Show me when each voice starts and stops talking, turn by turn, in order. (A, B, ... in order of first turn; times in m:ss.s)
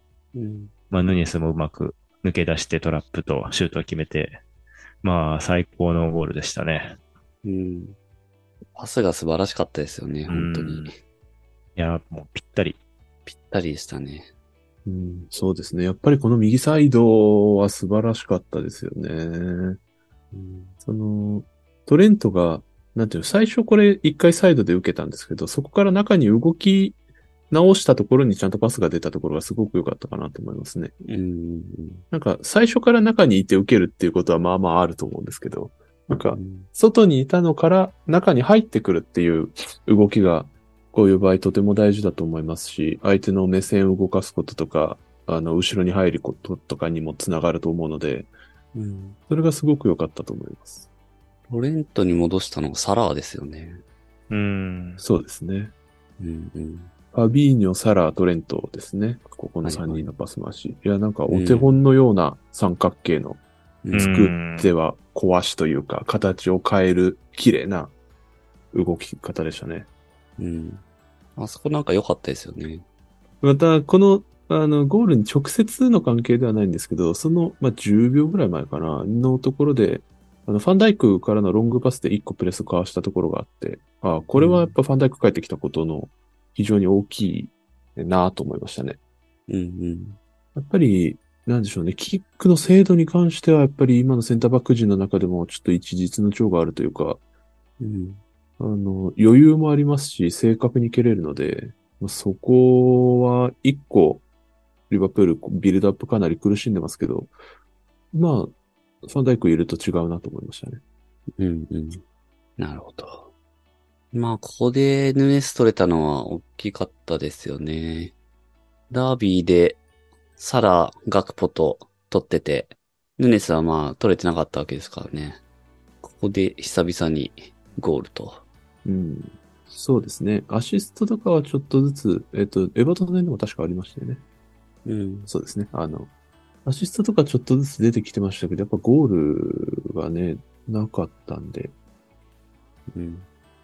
0:00.3-0:00.7 A
0:00.9-0:04.4 B
0:05.0-0:07.0 B
0:07.4-0:08.0 A
0:08.8-0:11.0 A
0:10.3-0:10.9 B
0:11.8-0:12.8 B
0:13.3-0:14.3 A
0:14.9-0:19.8 C
0:20.3-0:20.8 A
0:20.8-0:27.0 C
0:27.5-0:30.9 C
0:31.0-0:32.0 A
0:32.1-0:48.3 C
0:36.3-0:36.7 A
0:48.7-0:49.2 A
0:49.3-0:50.9 C
0:51.5-0:53.8 A
0:54.3-0:55.0 B
0:55.0-0:55.7 C
0:56.2-0:56.9 A
0:57.1-1:03.4 C
0:59.6-1:00.0 A
1:01.3-1:01.8 A
1:03.8-1:04.1 A
1:03.9-1:07.9 C
1:03.9-1:04.7 B
1:08.7-1:09.9 C
1:10.4-1:10.8 A
1:11.4-1:12.8 A
1:13.4-1:29.0 C
1:24.4-1:24.8 A
1:29.5-1:30.2 A
1:30.6-1:37.2 C
1:37.8-1:38.2 A
1:38.6-1:44.2 C
1:44.9-1:47.3 C
1:48.1-1:48.5 C
1:49.0-1:50.8 C
1:51.4-1:52.0 A
1:52.6-1:53.3 A
1:54.1-1:58.1 A
1:58.9-1:59.8 A
2:00.4-2:05.4 A
2:06.0-2:08.4 A
2:08.8-2:14.2 C
2:14.8-2:15.3 A
2:15.3-2:16.1 C
2:16.6-2:21.7 C
2:22.9-2:23.3 A